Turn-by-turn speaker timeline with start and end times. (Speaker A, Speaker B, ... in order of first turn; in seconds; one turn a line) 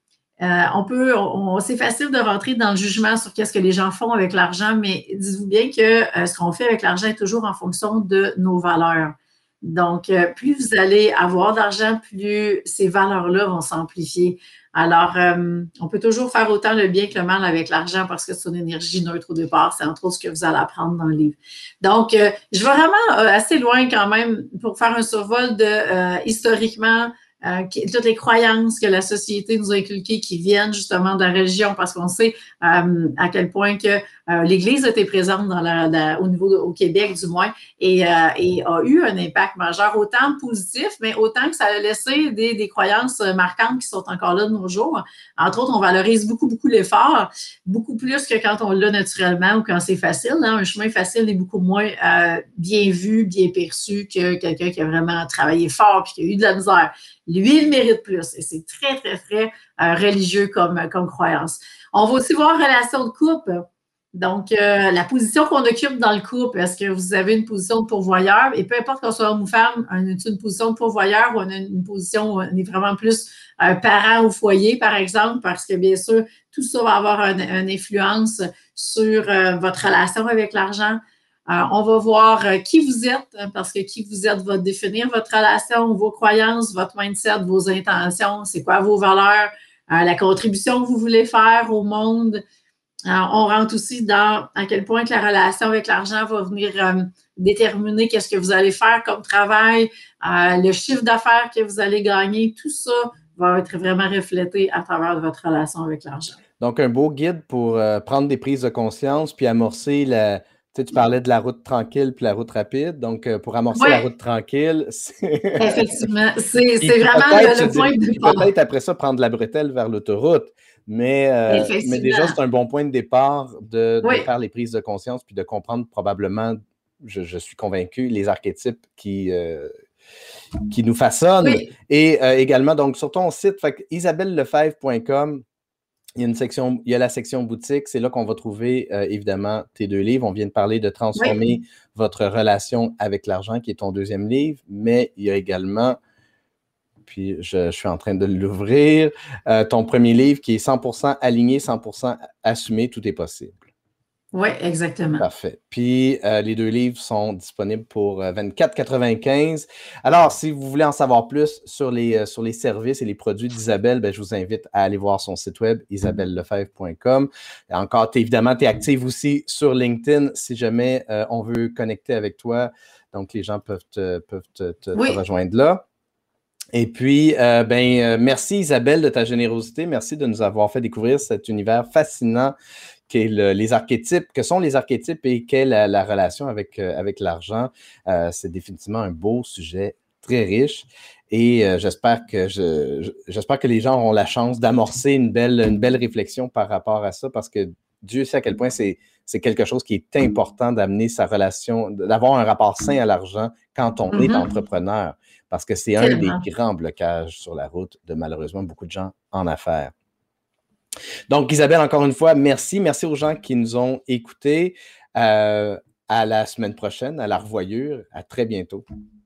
Speaker A: 0.4-92.4
Speaker A: 93.1-106.4
Speaker B: 106.6-116.0
Speaker A: 113.7-114.0
Speaker A: 115.6-118.5
Speaker B: 116.8-129.7
Speaker A: 121.5-122.3
Speaker A: 124.0-124.3
Speaker B: 130.7-135.4
Speaker A: 131.4-131.7
Speaker B: 136.2-146.0
Speaker B: 147.1-153.6
Speaker A: 154.3-155.2
Speaker B: 155.2-175.8
Speaker B: 176.7-182.5
Speaker B: 183.1-209.9
Speaker A: 204.1-204.5
Speaker A: 206.0-206.4
Speaker B: 211.3-218.8